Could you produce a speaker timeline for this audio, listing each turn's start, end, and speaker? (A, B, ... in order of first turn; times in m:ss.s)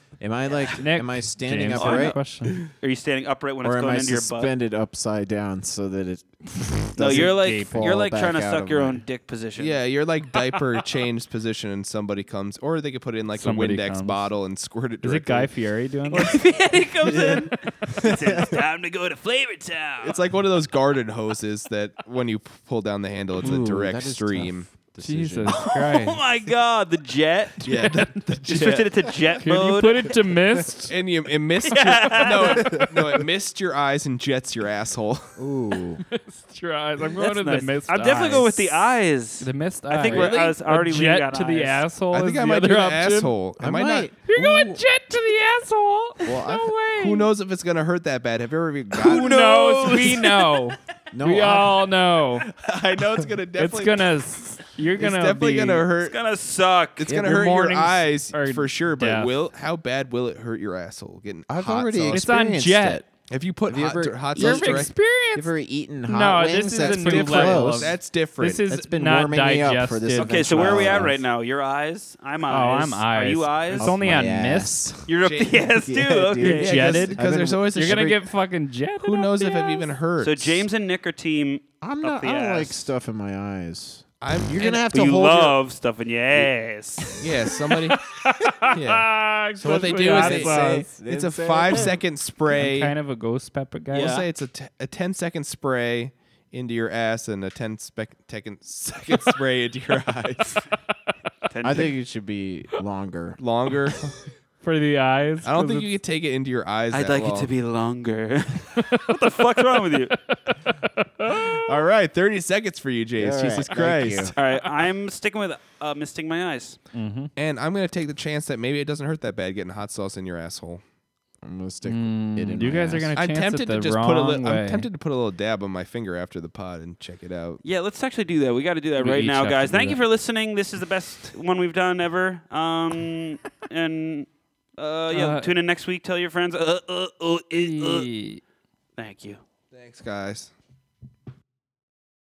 0:00.2-0:02.7 A
0:00.8-0:02.7 B
0:01.7-0:04.5 C
0:03.6-0:09.0 A
0:07.0-0:09.8 C
0:07.0-0:07.9 B
0:09.6-0:15.5 D
0:13.4-0:14.3 B
0:15.0-0:16.4 B
0:16.1-0:20.2 C
0:17.0-0:18.5 D
0:20.0-0:24.7 D
0:23.3-0:25.6 A
0:25.0-0:26.2 B
0:25.5-0:27.9 C
0:27.6-0:29.3 D
0:27.8-0:28.3 B
0:28.4-0:30.1 C
0:29.4-0:31.0 B
0:30.8-0:35.4 D
0:31.7-0:33.0 C
0:32.2-0:32.8 B
0:35.4-0:36.0 A
0:36.1-0:38.8 B
0:37.2-0:41.9 C
0:39.4-0:43.4 B
0:40.1-0:40.4 D
0:42.1-0:44.8 D
0:43.6-0:44.2 A
0:44.2-0:47.3 B
0:46.2-0:46.8 A
0:46.9-0:50.6 D
0:48.9-0:52.5 B
0:49.0-0:50.3 C
0:51.1-0:51.9 A
0:52.5-0:54.2 D
0:53.6-0:55.9 B
0:55.0-0:56.2 D
0:56.0-0:57.5 C
0:57.0-1:02.3 D
0:57.1-0:57.5 A
0:57.6-0:59.3 B
1:01.5-1:03.1 A
1:02.1-1:03.0 B
1:03.3-1:04.9 D
1:03.6-1:08.0 A
1:04.3-1:05.6 B
1:06.1-1:11.1 B
1:06.8-1:08.7 D
1:08.6-1:11.2 A
1:10.1-1:14.0 C
1:12.5-1:14.9 B
1:13.8-1:18.2 A
1:15.1-1:17.0 C
1:15.2-1:15.8 D
1:16.4-1:19.9 B
1:16.6-1:18.3 D
1:19.0-1:20.7 D
1:20.2-1:22.9 C
1:21.8-1:25.6 A
1:24.2-1:24.7 D
1:24.6-1:27.2 C
1:27.2-1:28.0 D
1:28.1-1:30.9 B
1:28.7-1:32.9 D
1:29.6-1:32.0 A
1:32.5-1:34.2 B
1:33.9-1:34.3 C
1:33.9-1:40.7 D
1:41.5-1:41.9 C
1:41.6-1:43.4 A
1:43.4-1:44.2 D
1:44.6-1:45.9 B
1:45.4-1:47.5 D
1:46.9-1:50.2 C
1:50.2-1:51.6 B
1:51.3-1:54.4 D
1:53.2-1:54.4 A
1:54.4-1:56.8 C
1:56.9-1:57.3 B
1:57.4-2:00.8 D
2:01.4-2:03.1 A
2:01.8-2:04.9 B
2:03.2-2:07.6 D
2:07.6-2:18.1 C
2:09.0-2:10.0 B
2:15.1-2:15.5 B
2:17.6-2:18.4 B
2:19.0-2:19.4 C
2:19.7-2:20.5 D